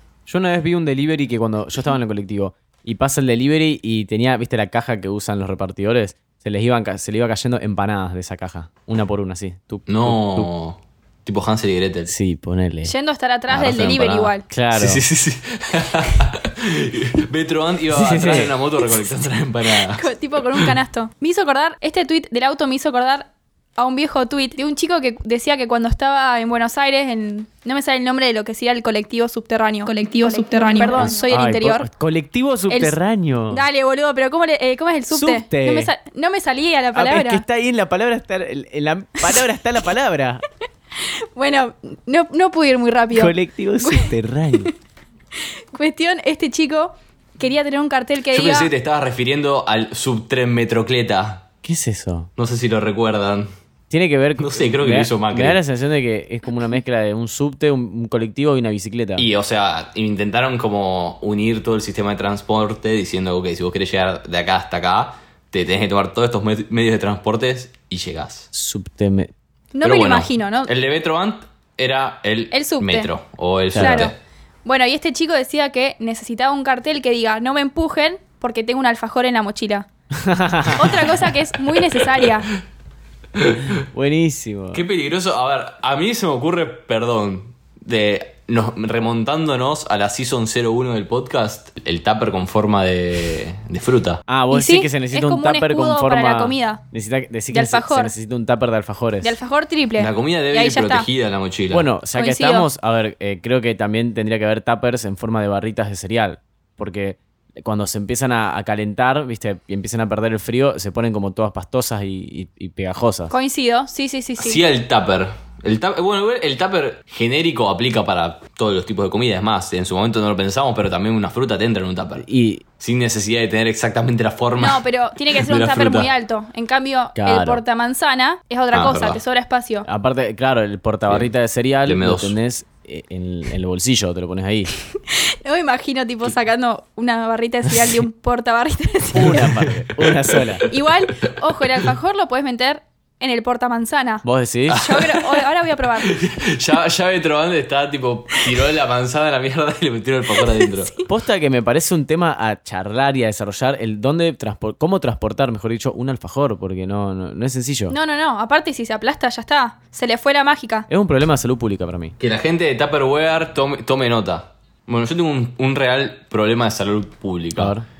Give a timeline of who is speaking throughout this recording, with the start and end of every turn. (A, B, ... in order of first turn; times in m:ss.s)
0:00.3-0:10.5 A
0:09.9-0:12.1 B
0:12.1-0:12.9 A
0:12.8-0:14.4 C
0:13.5-0:20.7 B
0:14.5-0:15.0 A
0:17.9-0:18.5 A
0:19.8-0:31.9 C
0:31.0-0:33.6 A
0:32.7-0:33.0 C
0:33.5-0:37.4 C
0:35.1-0:35.9 A
0:36.9-0:40.4 A
0:41.0-0:44.1 C
0:43.1-0:44.7 A
0:45.4-0:48.7 C
0:48.3-0:51.4 B
0:51.6-0:52.3 A
0:52.4-0:53.5 B
0:53.9-0:59.3 A
0:54.4-0:55.6 B
0:59.2-1:08.5 B
1:08.5-1:09.3 A
1:09.7-1:10.7 C
1:09.8-1:14.2 B
1:12.5-1:13.1 C
1:13.7-1:14.1 A
1:13.8-1:14.1 C
1:14.6-1:19.9 C
1:20.2-1:20.9 A
1:20.8-1:22.5 C
1:21.8-1:22.3 B
1:23.4-1:23.7 B
1:23.8-1:24.8 A
1:24.7-1:34.2 B
1:34.3-1:39.4 A
1:34.5-1:36.8 C
1:37.5-1:38.1 C
1:39.2-1:41.1 C
1:40.0-1:41.9 B
1:41.7-1:53.3 A
1:42.1-1:42.7 C
1:53.3-1:54.6 C
1:54.4-2:02.2 B
2:02.2-2:02.6 A
2:02.8-2:06.1 B
2:04.6-2:09.8 C
2:07.2-2:07.6 A
2:08.7-2:09.2 B
2:09.8-2:14.7 A
2:11.8-2:12.4 B
2:15.1-2:19.5 C
2:19.1-2:20.6 A
2:20.0-2:20.4 B
2:20.7-2:26.2 C
2:24.2-2:24.8 A
2:24.7-2:25.5 B
2:26.0-2:31.0 B
2:30.6-2:31.0 C
2:31.1-2:38.0 A
2:37.9-2:40.9 C
2:40.9-2:42.1 A
2:42.2-2:47.7 B
2:47.6-2:47.8 A